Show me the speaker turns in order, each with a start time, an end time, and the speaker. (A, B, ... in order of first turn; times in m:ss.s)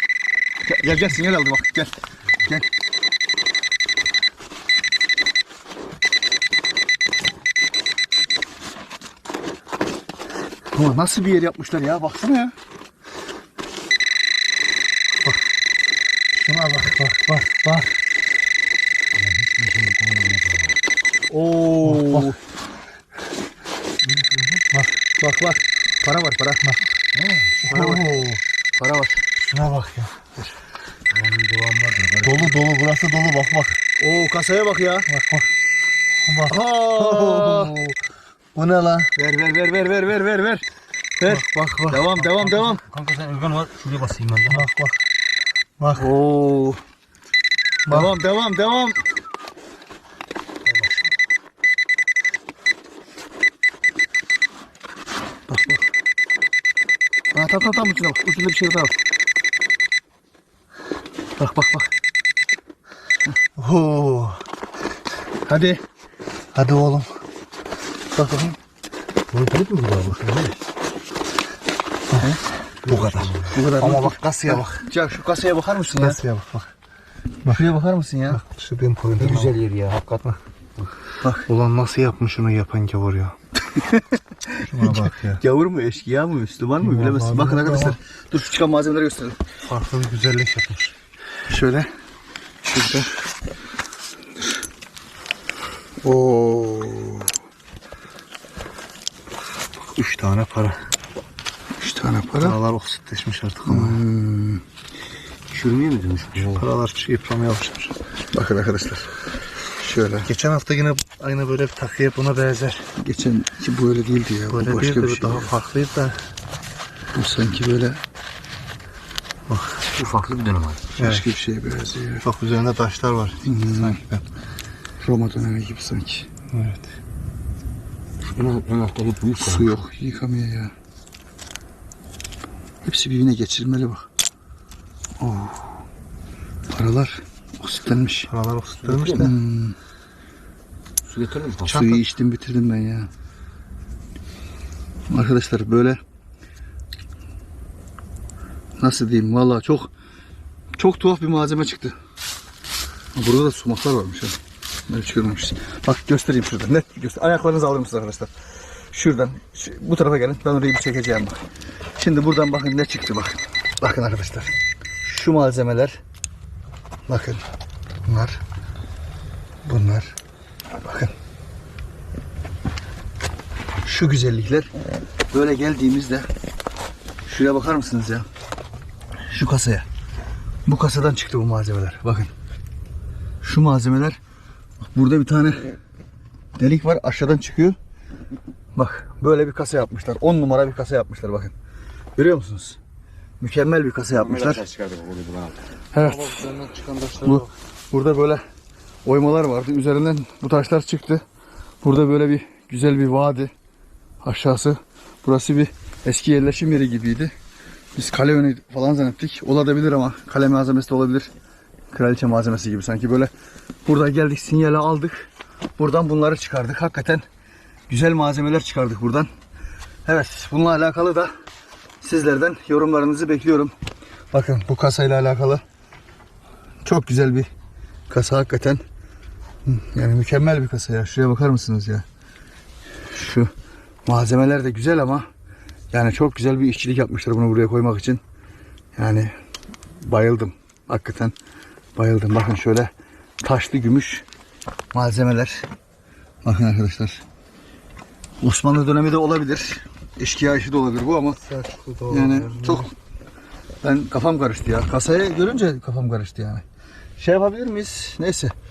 0:00.6-0:02.7 A
0:10.7-0:12.5 A
0:16.3-0:18.0 B
0:19.2-0:20.8 C
0:21.3-0:22.4 A
0:21.9-0:22.2 B
0:24.1-0:24.6 C
0:25.2-0:26.8 A
0:27.1-0:27.6 C
0:27.6-0:28.4 B
0:27.7-0:28.1 A
0:28.7-0:29.2 A
0:29.4-0:30.2 B
0:31.1-0:32.6 C
0:32.2-0:33.8 B
0:34.0-0:35.1 A
0:35.1-0:35.5 B
0:36.2-0:38.0 B
0:36.4-0:37.8 A
0:38.5-0:39.1 B
0:39.2-0:40.6 A
0:41.2-0:42.8 A
0:41.2-0:42.1 B
0:42.4-0:44.7 C
0:44.5-0:45.0 B
0:45.8-0:46.1 B
0:45.9-0:46.8 A
0:47.9-0:49.0 A
0:50.7-0:51.0 B
0:55.5-0:55.7 A
0:57.3-0:59.0 A
1:01.4-1:01.9 A
1:03.6-1:04.4 B
1:05.4-1:05.8 A
1:06.5-1:07.2 B
1:08.1-1:08.6 B
1:09.3-1:10.6 C
1:12.8-1:13.5 C
1:12.8-1:14.8 B
1:13.5-1:16.2 A
1:16.0-1:16.7 B
1:17.4-1:18.4 A
1:18.3-1:19.5 B
1:19.2-1:20.9 C
1:21.2-1:21.5 A
1:21.5-1:23.4 B
1:23.7-1:29.4 A
1:24.6-1:25.4 B
1:26.8-1:28.0 B
1:29.7-1:30.9 B
1:31.5-1:31.9 A
1:32.6-1:33.2 A
1:36.0-1:37.3 A
1:39.8-1:40.9 B
1:41.8-1:42.6 A
1:42.4-1:44.0 B
1:43.7-1:44.6 A
1:45.5-1:46.7 C
1:46.5-1:47.9 B
1:48.3-1:49.1 A
1:49.8-1:50.3 A
1:50.2-1:52.9 B
1:53.0-1:55.5 A
1:54.5-1:56.2 B
1:57.1-1:58.0 A
1:59.5-1:59.8 B
1:59.9-2:00.8 C
2:01.0-2:02.2 A
2:01.0-2:01.2 B
2:02.2-2:04.2 B
2:03.4-2:04.0 A
2:05.0-2:06.3 A
2:06.5-2:06.8 B
2:08.2-2:09.8 C
2:09.4-2:10.7 A
2:12.8-2:14.1 A
2:15.2-2:15.7 A
2:16.7-2:18.3 A
2:18.3-2:19.3 B
2:18.8-2:19.3 C
2:19.2-2:19.8 A
2:21.0-2:21.7 C
2:21.6-2:23.1 A
2:21.7-2:22.0 B
2:25.1-2:26.0 A
2:28.8-2:29.9 A
2:30.8-2:32.0 A
2:33.1-2:38.3 A
2:38.9-2:41.4 A
2:42.0-2:46.0 A
2:47.1-2:47.4 A
2:48.0-2:48.4 A
2:49.6-2:50.2 A
2:50.8-2:51.1 A
2:53.8-2:54.7 A
2:55.3-2:56.3 A
2:57.2-2:58.2 A
2:59.3-2:59.8 A
3:00.6-3:02.3 A
3:03.4-3:04.2 A
3:04.8-3:05.8 A
3:06.6-3:07.8 A
3:08.7-3:11.5 A
3:12.2-3:12.8 A
3:13.4-3:14.6 A
3:14.2-3:15.6 C
3:15.9-3:16.6 A
3:16.2-3:17.5 B
3:17.2-3:18.4 A
3:19.0-3:21.2 A
3:21.8-3:23.5 A
3:24.2-3:27.3 A
3:28.0-3:31.3 A
3:31.9-3:33.3 A
3:33.8-3:37.2 A
3:37.9-3:39.3 A
3:40.0-3:41.3 A
3:42.0-3:43.7 A
3:44.3-3:45.6 A
3:46.8-3:47.5 A
3:48.1-3:48.8 A
3:49.6-3:52.0 A
3:53.1-3:53.5 A
3:54.0-3:55.3 A
3:55.9-3:58.2 A
3:59.0-3:59.3 A
4:00.0-4:01.3 A
4:02.0-4:04.2 A
4:04.9-4:05.7 A
4:06.4-4:07.2 A
4:08.4-4:11.4 A
4:11.4-4:12.9 B
4:12.1-4:12.9 A
4:13.8-4:16.6 A
4:17.2-4:18.5 A